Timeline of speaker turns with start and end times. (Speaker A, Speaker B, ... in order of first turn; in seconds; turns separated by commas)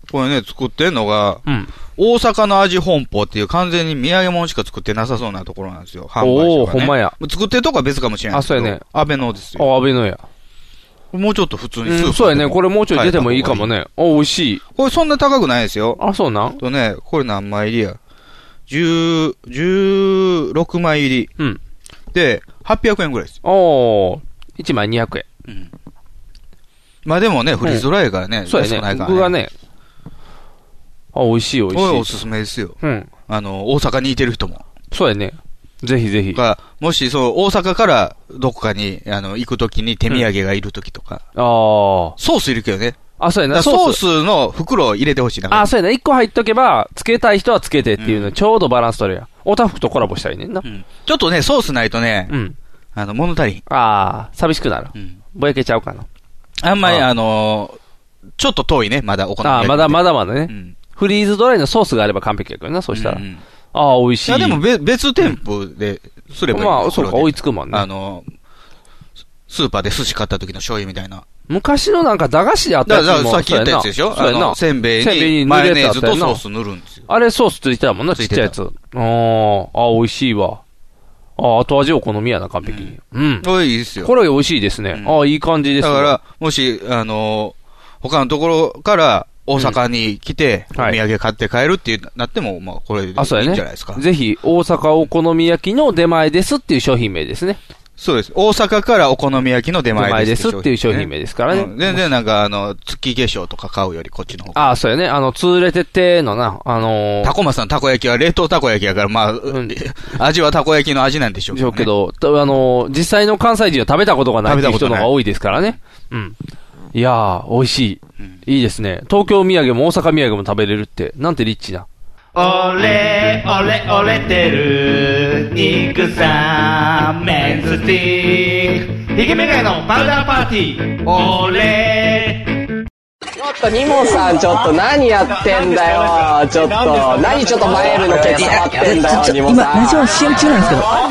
Speaker A: 0.1-1.4, Speaker B: 1.4-1.7, Speaker A: 1.9-9.6, Speaker B: 6.2-7.2, Speaker B: 8.3-8.8, Speaker B: 9.6-10.2, Speaker A: 11.1-13.7, Speaker B: 11.8-14.6, Speaker A: 14.8-16.0, Speaker B: 16.0-16.6, Speaker A: 16.6-18.0, Speaker A: 18.7-21.3, Speaker A: 22.1-23.4, Speaker B: 23.4-25.2, Speaker A: 27.0-29.3, Speaker B: 28.4-29.5, Speaker B: 31.1-32.1, Speaker A: 31.7-32.8, Speaker B: 32.8-33.1, Speaker A: 33.3-34.6, Speaker B: 34.9-36.4, Speaker A: 36.3-41.2, Speaker B: 41.4-42.2, Speaker A: 42.2-43.0, Speaker B: 43.2-44.0, Speaker A: 43.5-45.7, Speaker B: 45.5-50.6, Speaker A: 48.0-48.3, Speaker A: 50.6-52.3, Speaker B: 52.3-52.5, Speaker A: 52.9-53.6, Speaker B: 53.7-56.0, Speaker A: 56.6-57.8, Speaker A: 58.4-60.8, Speaker B: 59.4-64.6, Speaker A: 62.9-63.4, Speaker A: 64.2-68.3, Speaker B: 66.5-67.8, Speaker A: 69.5-71.2, Speaker B: 71.5-76.4, Speaker A: 72.8-77.0, Speaker B: 77.1-80.6, Speaker A: 78.1-78.5, Speaker B: 81.4-83.5, Speaker A: 82.6-84.1, Speaker B: 84.0-86.2, Speaker A: 84.9-85.2, Speaker A: 85.8-94.0, Speaker B: 93.2-97.6, Speaker A: 98.0-104.7, Speaker B: 99.9-102.0, Speaker B: 104.5-107.3, Speaker A: 107.2-111.9, Speaker B: 109.5-109.8, Speaker B: 111.5-116.3, Speaker A: 114.4-115.7, Speaker B: 116.9-121.8, Speaker C: 122.3-132.6, Speaker D: 133.6-139.8, Speaker E: 138.2-140.8